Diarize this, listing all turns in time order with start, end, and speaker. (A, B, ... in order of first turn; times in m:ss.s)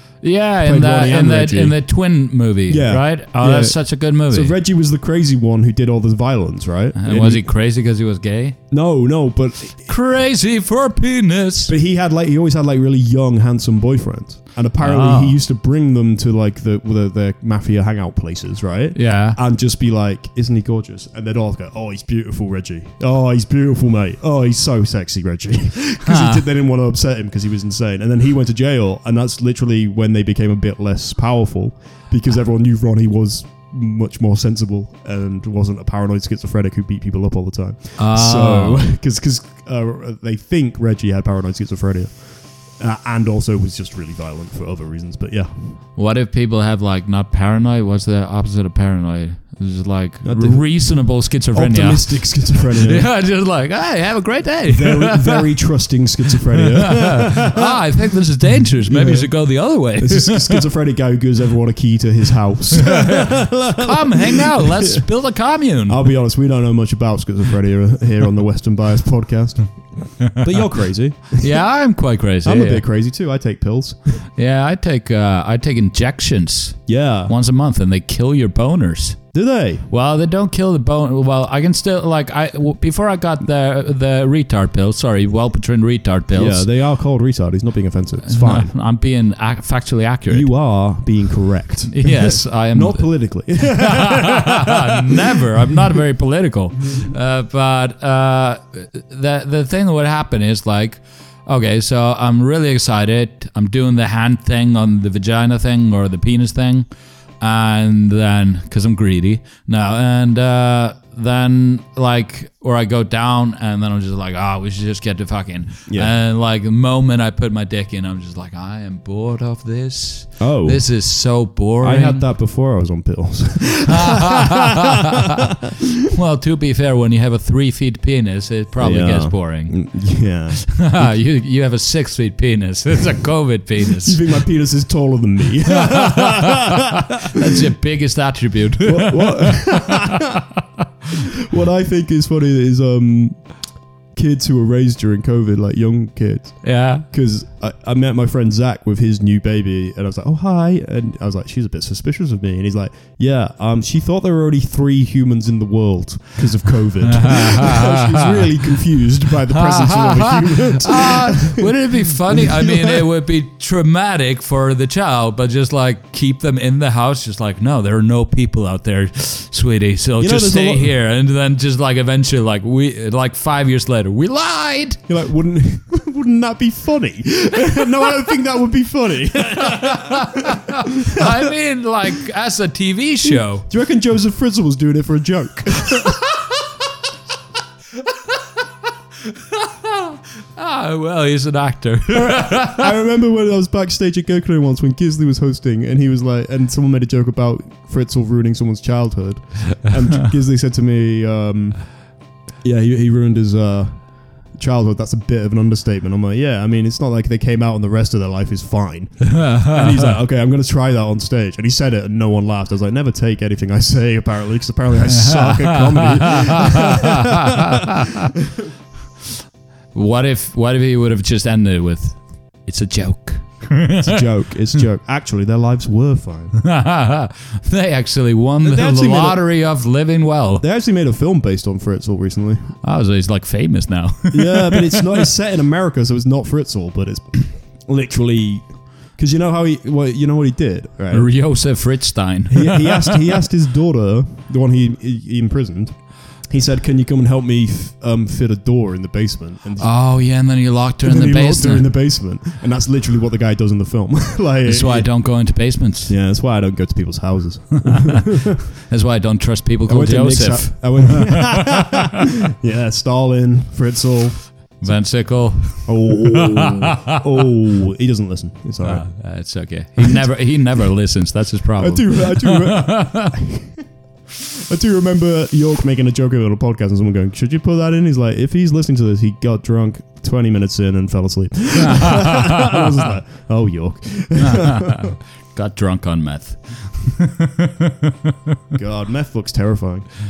0:00.2-0:04.5 A
0:00.6-0:01.8 B
0:02.7-0:07.4 B
0:06.9-0:08.6 A
0:08.7-0:09.9 B
0:09.8-0:11.7 A
0:11.7-0:45.8 B
0:14.8-0:15.4 A
0:18.9-0:19.4 A
0:26.0-0:26.4 A
0:38.0-0:38.9 A
0:46.0-0:55.4 A
0:50.2-0:53.1 B
0:54.7-0:57.8 B
0:56.6-1:00.6 A
0:58.8-0:59.4 B
1:00.0-1:05.0 B
1:02.8-1:06.0 A
1:05.9-1:11.5 B
1:11.4-1:12.8 A
1:12.4-1:14.2 B
1:14.4-1:19.2 A
1:16.9-1:17.3 B
1:19.3-1:19.9 B
1:19.9-1:26.7 A
1:26.3-1:28.7 B
1:28.2-1:30.5 A
1:30.3-1:35.8 B
1:31.9-1:46.9 A
1:47.4-2:02.2 A
1:55.9-1:56.1 B
2:00.4-2:01.0 B
2:01.8-2:05.7 B
2:03.9-2:05.3 A
2:06.1-2:10.1 A
2:08.8-2:11.1 B
2:10.7-2:14.3 A
2:14.0-2:17.6 B
2:15.7-2:20.4 A
2:18.8-2:20.4 B
2:21.4-2:23.5 B
2:24.1-2:43.0 B
2:26.6-2:27.0 A
2:37.0-2:38.7 A
2:39.5-2:55.0 A
2:50.2-2:50.9 B
2:55.1-3:01.5 B
2:59.6-3:03.6 A
3:03.2-3:06.2 B
3:09.2-3:12.9 A
3:12.2-3:21.8 B
3:22.6-3:37.8 B
3:29.2-3:30.1 A
3:35.2-3:38.3 A
3:39.9-3:44.2 A
3:44.0-3:46.6 B
3:46.6-3:50.6 A
3:48.6-3:49.4 B
3:50.6-3:52.7 B
3:52.8-3:55.2 A
3:54.3-4:01.3 B
4:01.1-4:03.3 A
4:02.5-4:09.9 B
4:09.8-4:11.9 A
4:11.0-4:15.1 B
4:14.6-4:16.1 A
4:16.1-4:18.6 B
4:17.9-4:21.3 A
4:19.9-4:24.9 B
4:24.8-4:27.2 A
4:25.8-4:29.1 B
4:28.8-4:33.3 A
4:30.0-4:30.2 B
4:31.8-4:33.8 B
4:34.5-4:45.1 B
4:41.8-4:42.9 A
4:44.4-4:48.5 A
4:48.7-4:50.1 B